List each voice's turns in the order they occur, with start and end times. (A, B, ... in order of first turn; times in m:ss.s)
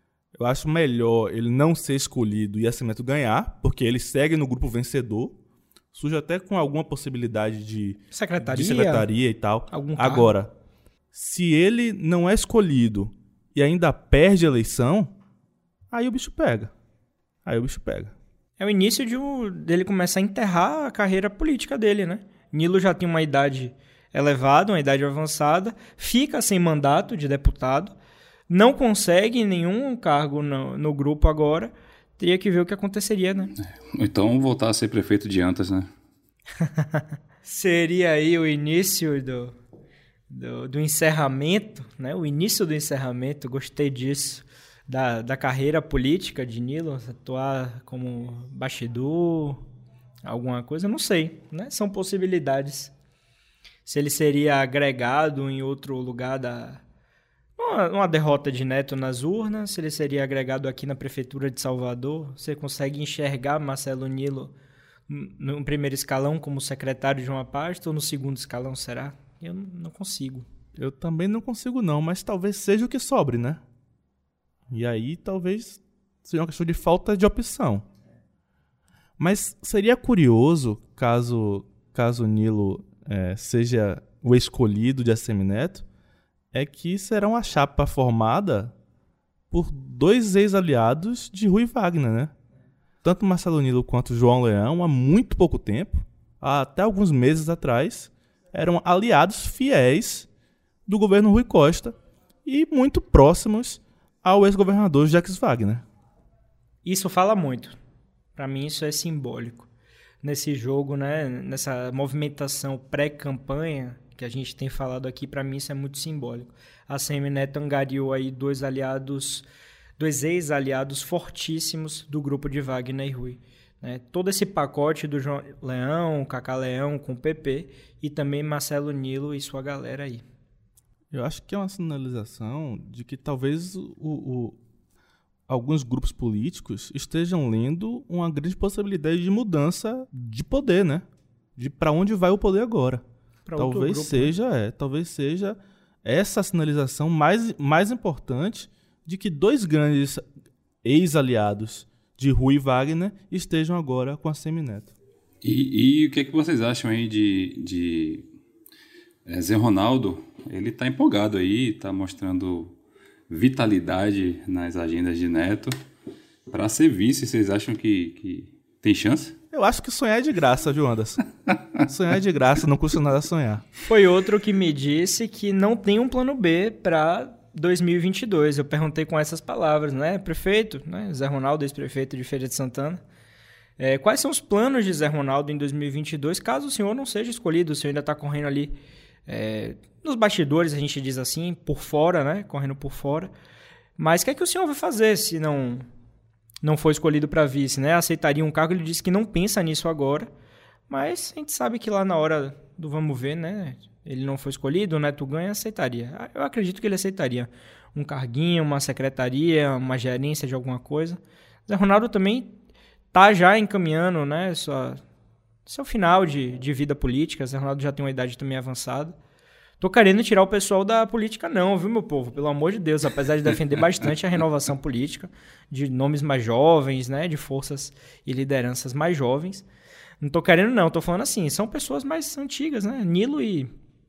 0:00.3-0:05.4 A
0:05.9-0:10.5 A
0:08.1-0:09.1 B
0:09.7-0:10.3 B
0:11.1-0:15.1 A
0:15.9-0:16.7 A
0:17.4-0:18.1 A
0:18.6-0:28.0 B
0:28.5-0:33.5 B
0:33.9-0:35.9 C
0:36.6-0:39.5 B
0:40.3-0:49.6 B
0:50.2-0:52.9 B
0:53.8-0:56.8 B
0:57.6-1:04.5 B
1:05.1-1:10.5 B
1:10.8-1:13.6 A
1:14.7-1:17.8 A
1:19.2-1:25.8 A
1:26.5-1:28.7 A
1:29.5-1:32.3 A
1:33.0-1:40.3 A
1:40.9-1:45.8 A
1:46.8-1:47.8 B
1:48.4-1:49.7 B
1:50.2-1:59.4 B
2:00.0-2:10.2 B
2:11.1-2:14.6 A
2:15.5-2:23.0 A
2:23.5-2:24.3 B
2:23.6-2:30.2 A
2:30.8-2:34.9 A
2:35.4-2:38.2 C
2:39.2-2:42.7 C
2:43.3-2:45.7 C
2:46.5-2:49.4 C
2:49.5-2:53.6 A
2:53.9-3:03.0 B
3:03.8-3:08.8 B
3:09.3-3:13.3 B
3:14.0-3:15.8 B
3:16.6-3:20.3 B
3:20.9-3:32.5 B
3:33.1-3:35.0 B
3:35.7-3:39.2 B
3:39.8-3:49.6 B
3:50.2-3:53.7 B